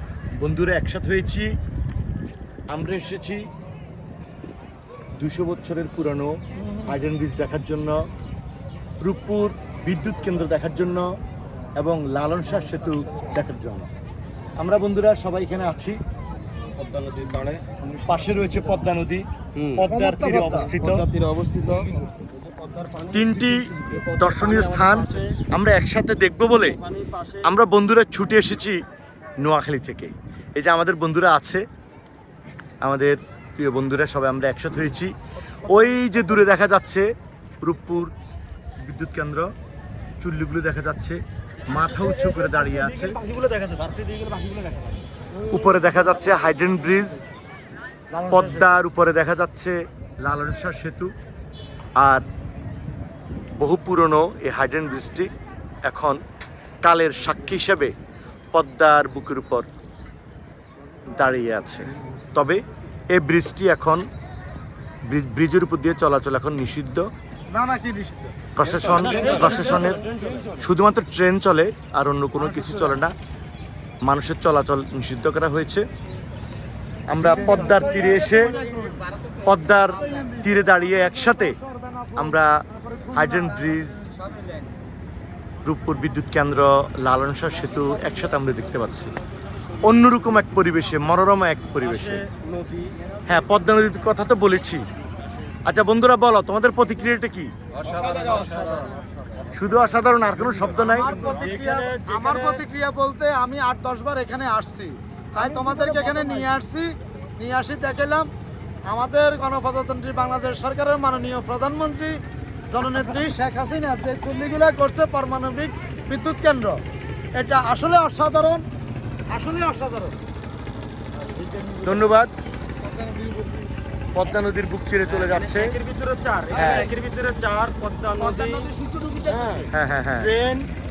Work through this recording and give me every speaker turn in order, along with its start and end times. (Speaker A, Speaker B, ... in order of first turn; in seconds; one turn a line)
Speaker A: 0.4-1.6
Speaker A: 2.7-3.5
Speaker A: 5.2-6.3
Speaker A: 6.8-8.1
Speaker A: 9.0-11.1
Speaker A: 11.8-13.9
Speaker A: 14.6-16.0
Speaker B: 16.7-17.8
Speaker A: 18.0-21.1
Speaker B: 19.6-19.8
Speaker C: 19.9-20.8
Speaker B: 20.8-25.4
Speaker A: 23.1-26.8
Speaker B: 26.6-27.5
Speaker A: 27.4-28.8
Speaker A: 29.4-31.6
Speaker A: 32.8-37.1
Speaker A: 37.6-38.1
Speaker A: 38.8-39.5
Speaker A: 40.2-43.2
Speaker B: 41.7-45.1
Speaker A: 45.4-47.3
Speaker C: 48.1-48.6
Speaker A: 48.3-51.1
Speaker A: 52.0-52.2
Speaker A: 53.6-55.3
Speaker A: 55.9-56.2
Speaker A: 56.8-57.9
Speaker A: 58.5-59.7
Speaker A: 61.1-64.1
Speaker A: 65.1-67.1
Speaker C: 67.5-68.5
Speaker A: 68.5-73.1
Speaker B: 68.6-70.6
Speaker C: 69.1-69.5
Speaker C: 72.4-73.0
Speaker A: 74.0-75.9
Speaker A: 77.1-78.6
Speaker C: 77.2-79.0
Speaker A: 79.4-81.6
Speaker C: 80.1-84.7
Speaker A: 82.2-84.1
Speaker A: 85.7-89.1
Speaker A: 89.8-92.2
Speaker B: 91.8-93.0
Speaker A: 93.3-94.8
Speaker A: 95.7-97.5
Speaker B: 97.8-99.0
Speaker A: 99.5-101.3
Speaker C: 100.8-108.3
Speaker B: 101.3-102.7
Speaker C: 108.8-116.8
Speaker C: 117.3-118.7
Speaker C: 119.3-120.2
Speaker B: 121.2-122.1
Speaker A: 121.8-122.3
Speaker C: 122.9-123.5
Speaker A: 124.1-125.8
Speaker B: 125.0-128.7
Speaker A: 126.5-126.9
Speaker C: 128.2-129.7
Speaker B: 129.2-130.7
Speaker A: 129.7-130.3